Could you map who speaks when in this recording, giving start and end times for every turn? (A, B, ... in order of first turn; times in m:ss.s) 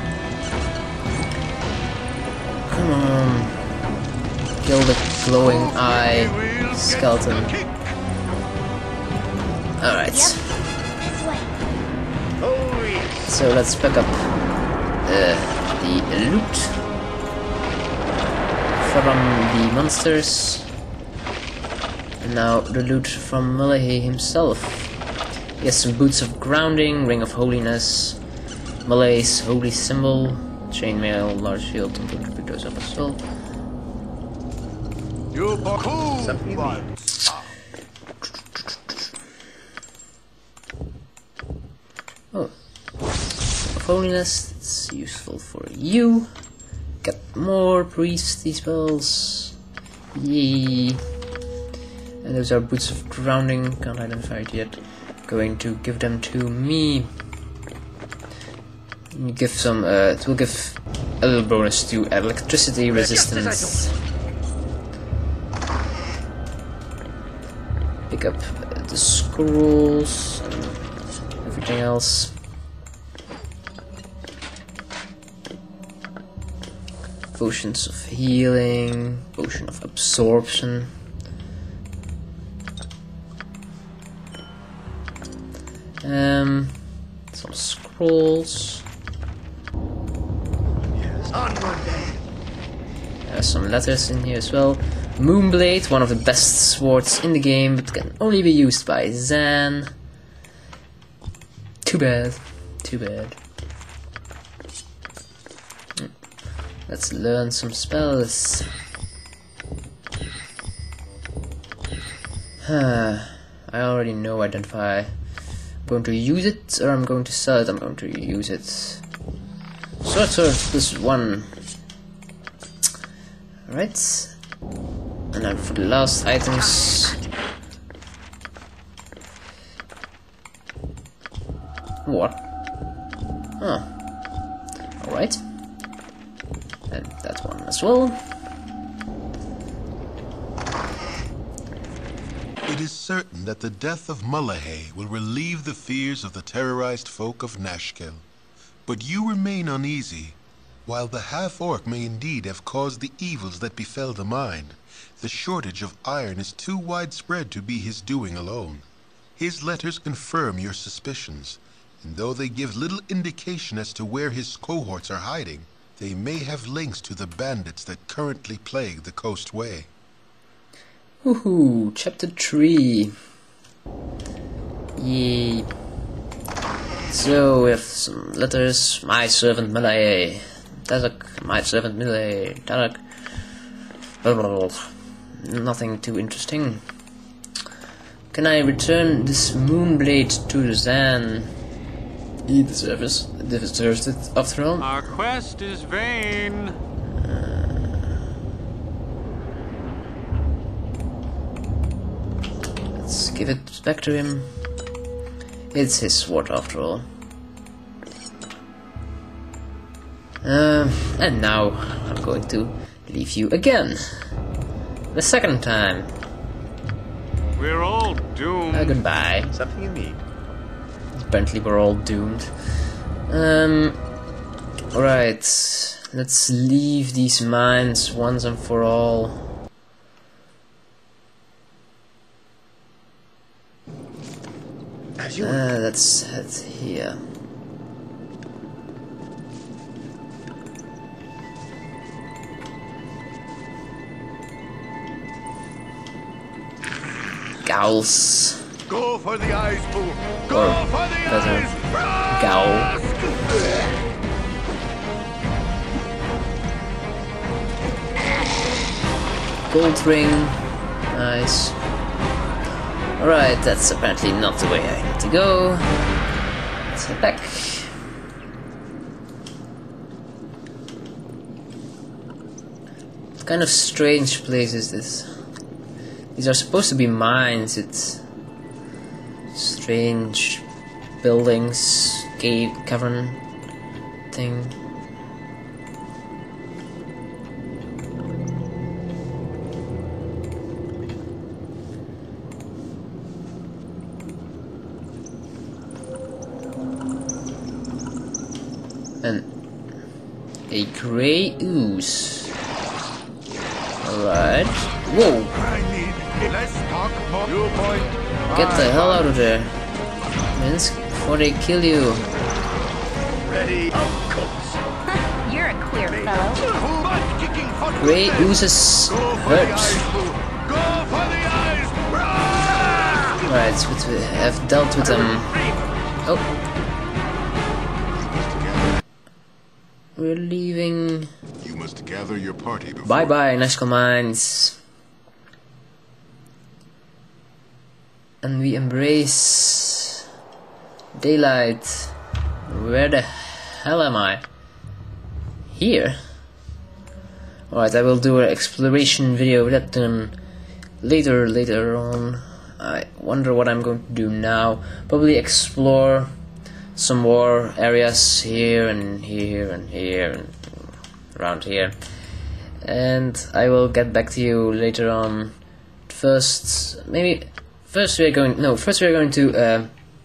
0:02.7-0:03.6 A
0:04.6-0:07.6 A
0:05.5-0:07.8 B
0:09.8-0:10.6 A
0:10.1-0:10.3 C
0:11.0-0:11.5 C
0:12.4-0:13.1 D
0:13.2-0:14.3 A
0:15.0-0:16.8 A
0:18.8-0:20.7 A
0:22.2-0:24.9 A
0:25.6-0:28.2 A
0:28.8-0:33.2 A
0:35.3-0:37.4 B
0:36.1-0:36.9 D
0:43.7-0:46.3 A
0:47.0-0:49.6 A
0:50.1-0:51.0 A
0:52.2-0:57.1 A
0:59.1-1:04.0 A
1:08.1-1:10.8 A
1:11.4-1:12.3 A
1:17.3-1:20.9 A
1:26.0-1:28.8 A
1:30.9-1:32.2 D
1:33.2-1:39.9 A
1:41.8-1:43.4 A
1:46.9-1:48.7 A
1:52.6-1:55.2 A
1:55.8-1:59.0 A
2:00.0-2:01.5 A
2:03.7-2:04.4 A
2:05.3-2:07.2 A
2:12.0-2:12.4 A
2:13.6-2:13.9 A
2:15.0-2:15.4 A
2:16.9-2:18.2 A
2:22.6-2:28.2 E
2:28.8-2:49.9 E
2:51.2-2:53.1 A
2:55.0-2:55.7 A
2:57.1-3:03.0 A
3:04.2-3:06.8 A
3:08.3-3:11.5 A
3:12.5-3:14.9 A
3:14.8-3:16.8 F
3:17.2-3:17.9 A
3:23.0-3:24.5 A
3:25.7-3:27.0 A
3:30.4-3:34.3 A
3:35.1-3:36.1 A
3:37.6-3:39.0 F
3:38.7-3:39.5 A
3:39.5-3:40.2 D
3:41.2-3:42.5 A
3:43.3-3:44.0 A
3:44.9-3:49.4 A
3:55.2-3:55.6 D
3:55.4-3:57.2 A
4:07.6-4:08.6 A
4:08.9-4:13.6 B
4:10.5-4:11.8 A
4:12.3-4:13.0 A
4:19.7-4:21.8 A
4:23.2-4:25.9 A
4:26.9-4:27.9 A
4:33.4-4:35.3 A
4:36.3-4:38.2 A
4:39.5-4:40.6 A
4:41.2-4:43.4 A
4:44.3-4:44.7 A
4:59.2-4:59.5 A
5:00.7-5:02.5 A
5:04.0-5:05.5 A
5:05.6-5:09.2 B
5:08.5-5:09.7 A
5:10.5-5:12.2 A
5:13.4-5:14.8 D
5:15.1-5:16.7 C
5:16.7-5:18.5 B
5:18.0-5:20.1 A
5:19.1-5:23.3 B
5:23.4-5:25.7 A
5:28.1-5:29.0 E
5:30.2-5:31.3 A
5:31.6-5:33.3 E
5:33.0-5:34.8 A
5:38.4-5:40.2 A
5:41.2-5:42.1 A
5:42.7-5:44.4 A
5:45.7-5:46.2 A
5:47.7-5:50.3 A
5:51.0-5:56.3 A
5:57.0-6:02.0 A
6:02.8-6:09.9 A